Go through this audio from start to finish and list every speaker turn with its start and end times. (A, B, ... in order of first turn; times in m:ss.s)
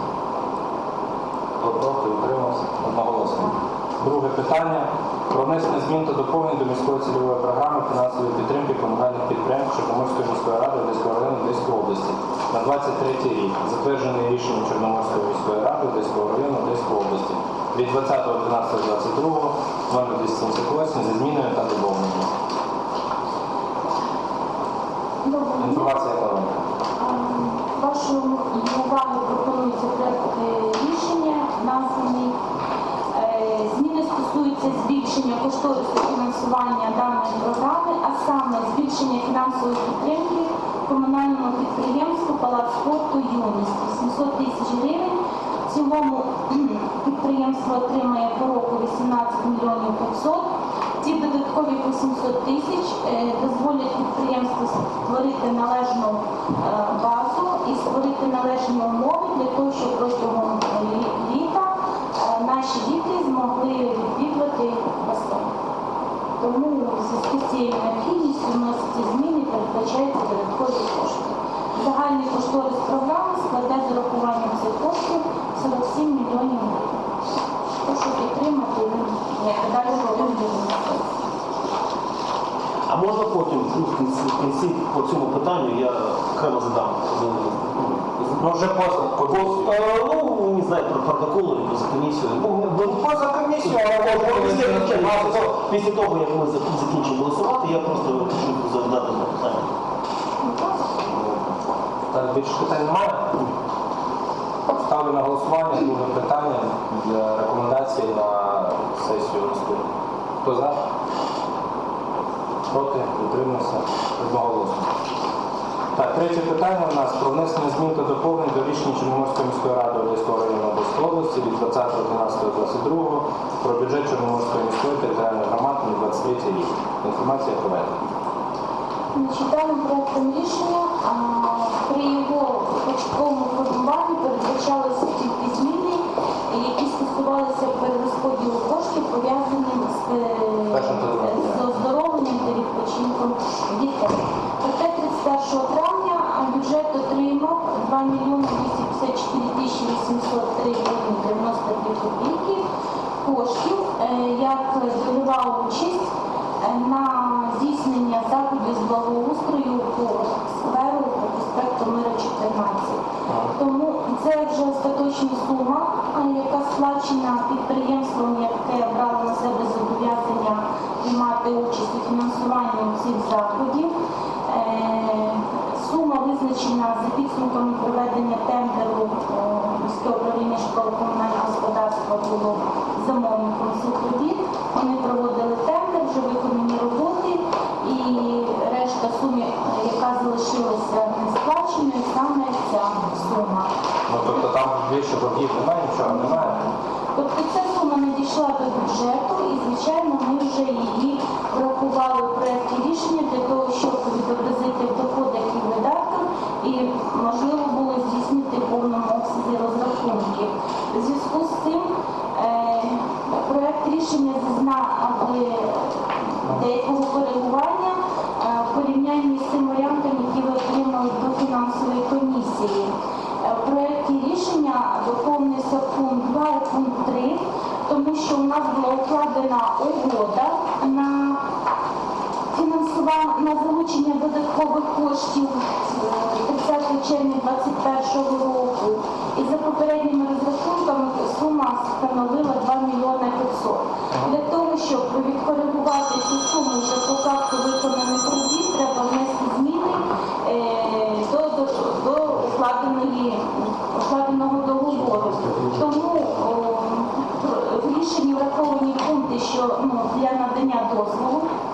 0:01.6-0:22.3 A
0:25.2-0:26.0 B
0:25.6-0:26.6 A
0:27.0-0:32.4 B
0:33.1-0:50.5 B
0:51.0-1:05.5 B
1:06.4-1:17.0 B
1:17.8-1:21.0 B
1:22.9-1:28.4 C
1:28.4-1:29.7 A
1:29.2-1:39.6 C
1:33.6-1:35.5 A
1:40.4-1:40.8 B
1:42.1-1:43.3 A
1:44.7-1:49.8 A
1:50.4-1:50.8 A
1:52.7-1:54.9 A
1:56.0-2:08.0 A
2:09.1-2:32.6 B
2:20.7-2:21.8 A
2:33.2-2:36.1 B
2:36.6-2:43.0 B
2:43.3-2:43.6 A
2:43.5-2:53.9 B
2:54.5-3:13.7 B
3:14.1-3:16.6 A
3:16.0-3:51.4 B
3:52.5-4:21.5 B
4:04.1-4:04.4 A